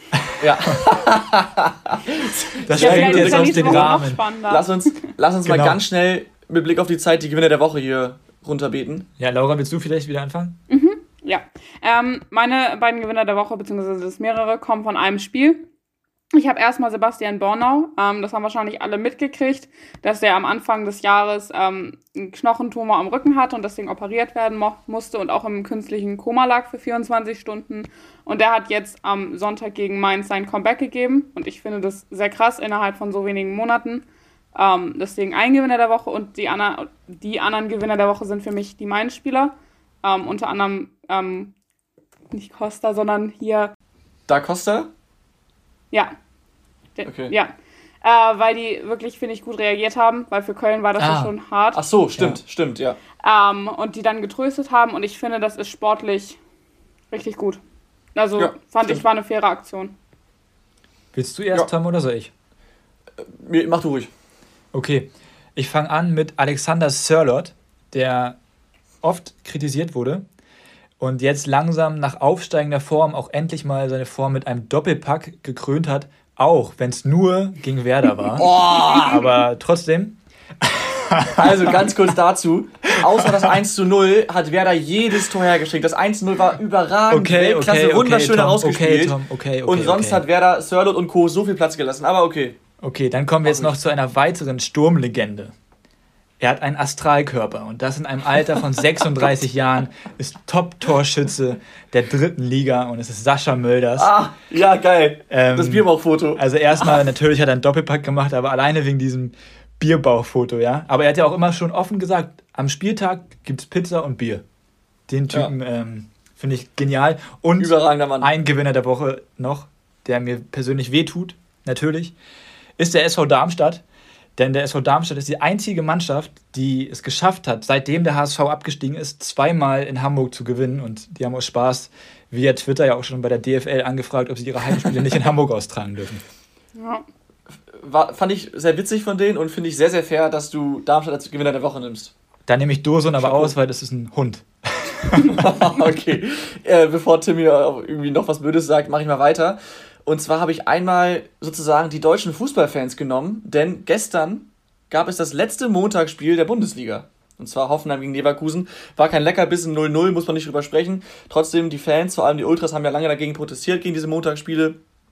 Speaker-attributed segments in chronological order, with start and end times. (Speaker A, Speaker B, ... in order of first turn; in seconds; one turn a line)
Speaker A: 0.4-9.1
Speaker B: 2.7-4.2
Speaker C: 2.8-4.8
Speaker B: 5.4-5.8
Speaker B: 9.2-10.6
Speaker C: 10.7-15.7
Speaker C: 16.3-41.5
Speaker C: 42.3-43.7
Speaker A: 44.3-44.9
Speaker C: 47.0-51.8
Speaker A: 47.0-47.3
Speaker B: 51.0-51.3
Speaker A: 51.7-53.0
Speaker C: 53.2-56.4
Speaker C: 57.1-57.6
Speaker C: 58.1-59.9
Speaker A: 58.4-59.0
Speaker B: 61.1-62.3
Speaker A: 63.2-64.1
Speaker B: 64.7-68.4
Speaker B: 69.0-70.2
Speaker B: 71.0-81.9
Speaker A: 78.3-79.3
Speaker A: 81.4-92.5
Speaker B: 83.0-83.5
Speaker B: 87.1-90.2
Speaker B: 92.8-95.5
Speaker A: 93.4-93.8
Speaker B: 96.4-104.1
Speaker A: 104.0-106.4
Speaker B: 105.3-114.4
Speaker B: 115.1-122.1
Speaker A: 117.6-118.3
Speaker B: 122.8-123.8
Speaker B: 124.4-136.2
Speaker C: 136.8-137.0
Speaker A: 137.7-142.1
Speaker B: 142.5-145.5
Speaker A: 143.2-143.5
Speaker A: 145.2-164.8